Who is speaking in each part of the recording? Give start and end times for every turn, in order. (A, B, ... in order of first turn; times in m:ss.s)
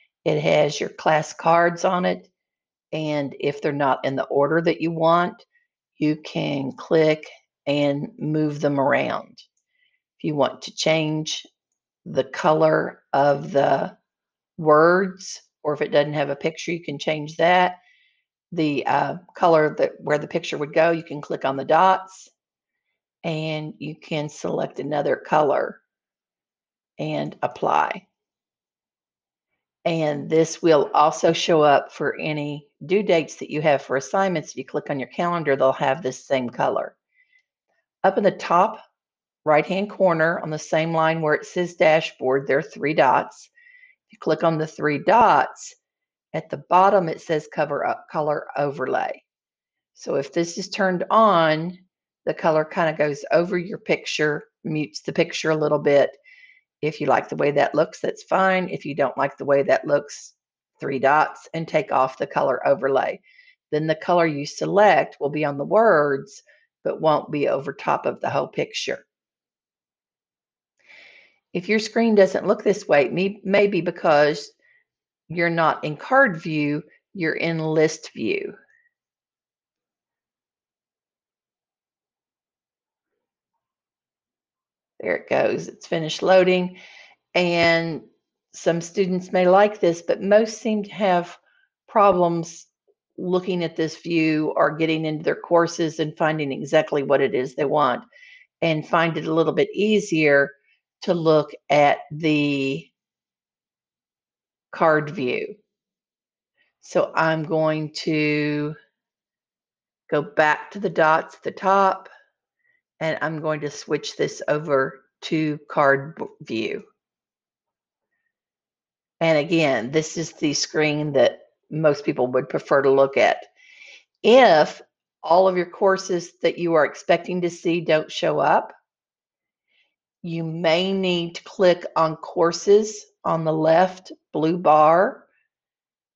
0:00.2-0:02.3 A
0:02.9-0:09.4 A
0:10.2-0:11.5 A
0:12.0-0:14.0 A
0:14.6-0:17.8 A
0:18.5-0:22.3 A
0:23.2-0:25.8 A
0:27.0-0:28.0 A
0:29.8-0:37.0 A
0:38.0-0:38.8 A
0:39.4-0:43.5 A
0:44.1-0:45.8 A
0:46.3-0:49.2 A
0:49.9-0:56.2 A
0:56.8-1:09.0 A
1:11.5-1:14.6 A
1:15.3-1:18.5 A
1:25.0-1:26.8 A
1:27.3-1:38.0 A
1:38.6-1:42.9 A
1:44.7-1:45.6 A
1:46.8-1:48.7 A
1:50.1-1:52.1 A
1:53.0-1:56.8 A
1:59.2-2:03.5 A
2:04.2-2:08.7 A
2:10.2-2:15.3 A